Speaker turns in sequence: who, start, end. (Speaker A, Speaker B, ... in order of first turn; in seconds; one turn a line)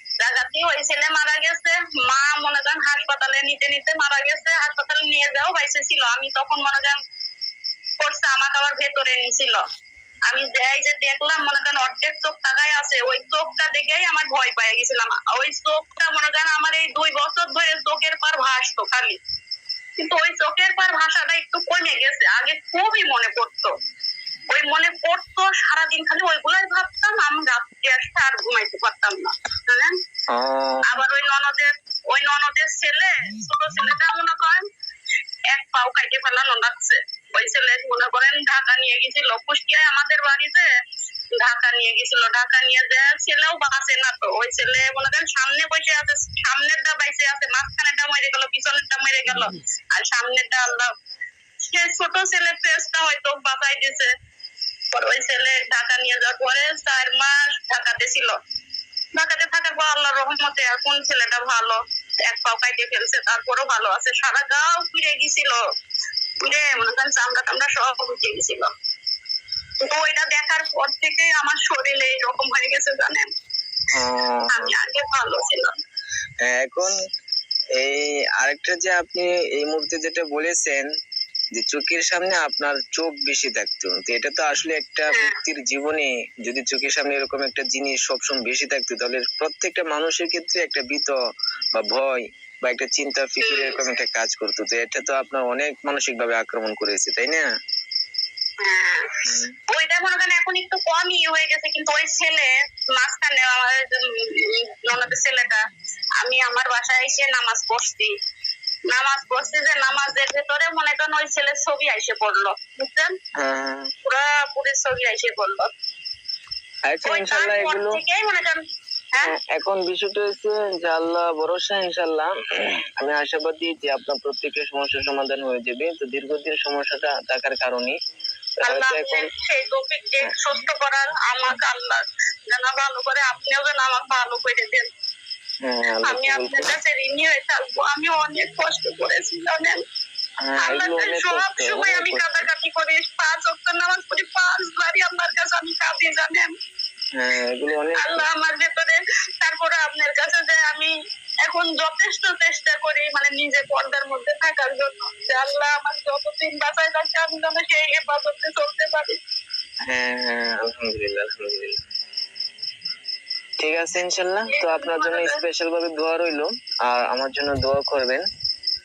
Speaker A: 0.2-7.0
Speaker A: 8.0-9.6
Speaker A: 10.3-19.2
Speaker A: 20.0-23.7
Speaker A: 24.5-29.9
Speaker B: 30.3-30.9
Speaker A: 30.8-34.6
Speaker A: 35.5-40.7
Speaker A: 41.4-50.9
Speaker A: 51.6-54.1
Speaker A: 54.9-58.4
Speaker A: 59.1-65.6
Speaker A: 66.4-68.7
Speaker A: 69.8-73.3
Speaker B: 73.9-74.7
Speaker A: 74.5-75.7
Speaker B: 76.4-77.0
Speaker B: 77.8-80.8
Speaker B: 81.5-91.1
Speaker B: 91.7-97.5
Speaker A: 93.4-93.8
Speaker A: 98.6-105.6
Speaker A: 106.2-108.1
Speaker A: 108.9-113.1
Speaker B: 113.4-113.9
Speaker A: 114.0-115.7
Speaker B: 116.9-118.0
Speaker A: 117.0-118.6
Speaker B: 119.2-128.0
Speaker B: 128.6-129.3
Speaker A: 128.6-134.9
Speaker B: 135.6-136.7
Speaker A: 136.0-139.8
Speaker B: 140.4-142.4
Speaker A: 140.6-146.5
Speaker B: 147.2-148.3
Speaker A: 147.9-150.9
Speaker A: 151.4-159.2
Speaker B: 159.9-161.8
Speaker B: 163.6-168.2
Speaker A: 164.5-165.4